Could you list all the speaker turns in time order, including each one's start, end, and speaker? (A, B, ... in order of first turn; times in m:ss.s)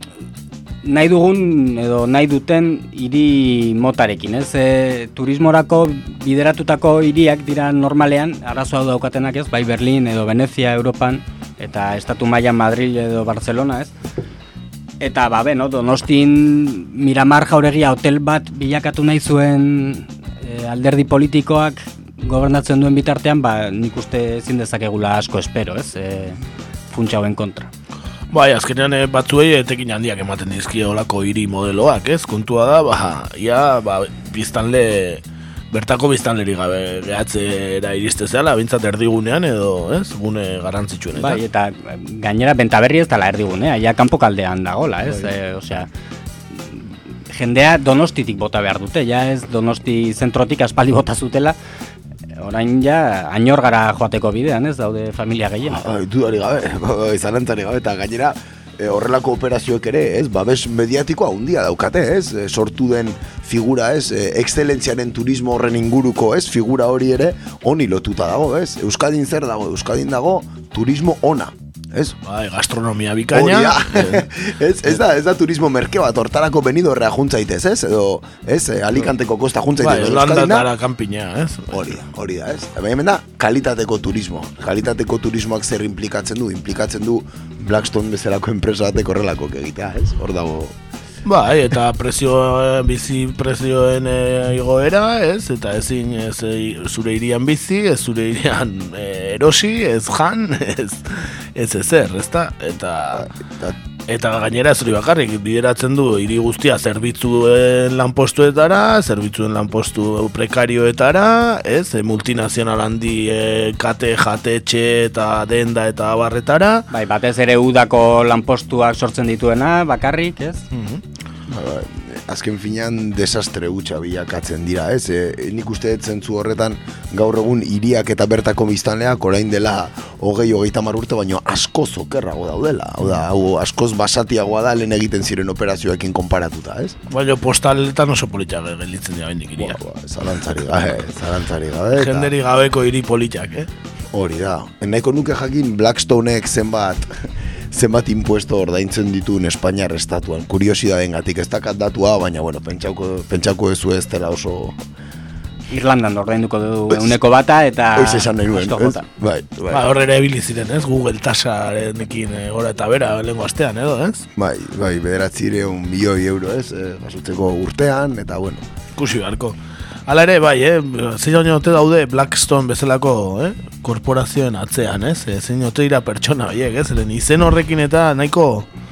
0:00.8-0:13.9 A
0:15.0-0:26.4 A
0:26.9-0:27.7 A
0:28.3-0:41.4 B
0:41.2-0:45.9 A
0:46.5-0:51.6 A
0:52.4-0:55.8 A
0:55.7-1:12.2 C
1:12.3-1:14.3 B
1:13.3-1:20.7 C
1:19.8-1:22.0 B
1:21.7-1:30.8 C
1:31.2-1:43.3 B
1:43.2-1:43.8 C
1:44.1-1:56.9 B
1:56.9-2:00.6 A
2:00.7-2:01.0 B
2:01.5-2:17.0 C
2:17.1-2:19.8 B
2:19.6-2:22.3 C
2:21.9-2:23.7 B
2:24.1-2:27.1 C
2:27.7-2:34.8 C
2:35.7-2:39.0 A
2:38.0-2:39.8 C
2:39.7-2:44.3 B
2:44.4-2:48.6 C
2:49.0-2:49.6 B
2:50.1-2:58.7 B